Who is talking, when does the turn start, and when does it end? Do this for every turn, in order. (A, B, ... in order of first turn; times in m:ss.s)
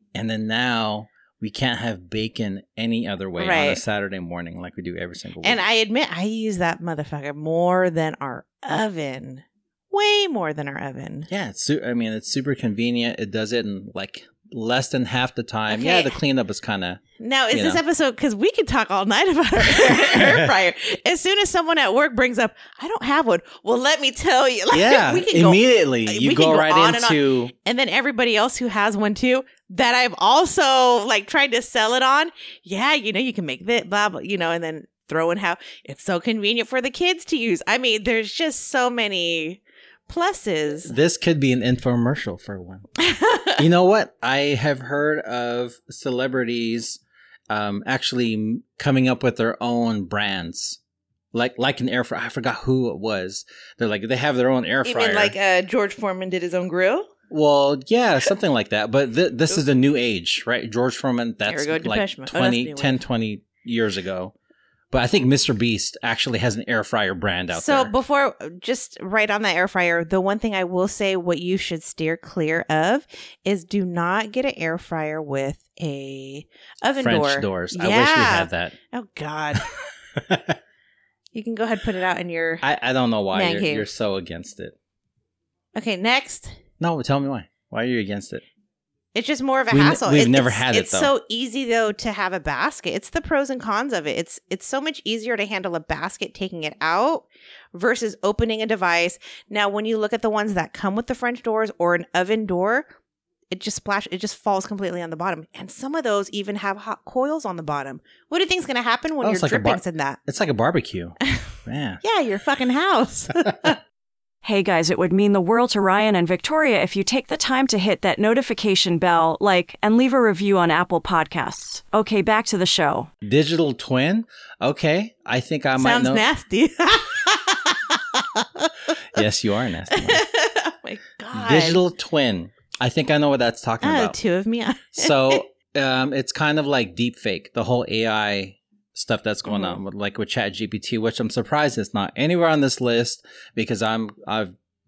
0:00.2-0:05.6 A
0:03.4-0:03.8 B
0:05.4-0:11.3 B
0:11.3-0:17.0 A
0:15.7-0:16.2 B
0:17.2-0:41.0 B
0:17.5-0:17.8 A
0:19.6-0:20.5 A
0:24.7-0:27.5 A
0:40.8-0:42.8 A
0:43.0-0:43.6 B
0:43.6-0:50.8 A
0:51.3-0:55.4 A
0:54.8-0:57.1 B
0:57.3-1:04.3 A
1:01.5-1:03.0 B
1:04.9-1:07.9 A
1:07.5-1:19.7 B
1:17.0-1:18.8 A
1:20.2-1:20.6 A
1:21.3-1:22.6 B
1:22.6-1:24.8 A
1:23.3-1:23.9 B
1:25.8-1:26.6 B
1:26.8-1:28.4 A
1:29.2-1:42.9 B
1:29.7-1:31.1 A
1:43.5-1:50.2 B
1:49.2-1:52.0 A
1:52.0-1:53.8 B
1:54.4-2:03.1 C
2:03.2-2:06.2 A
2:05.8-2:08.9 B
2:09.1-2:10.2 A
2:09.9-2:11.8 B
2:11.3-2:14.2 A
2:13.8-2:15.4 B
2:14.9-2:24.5 A
2:19.5-2:19.8 B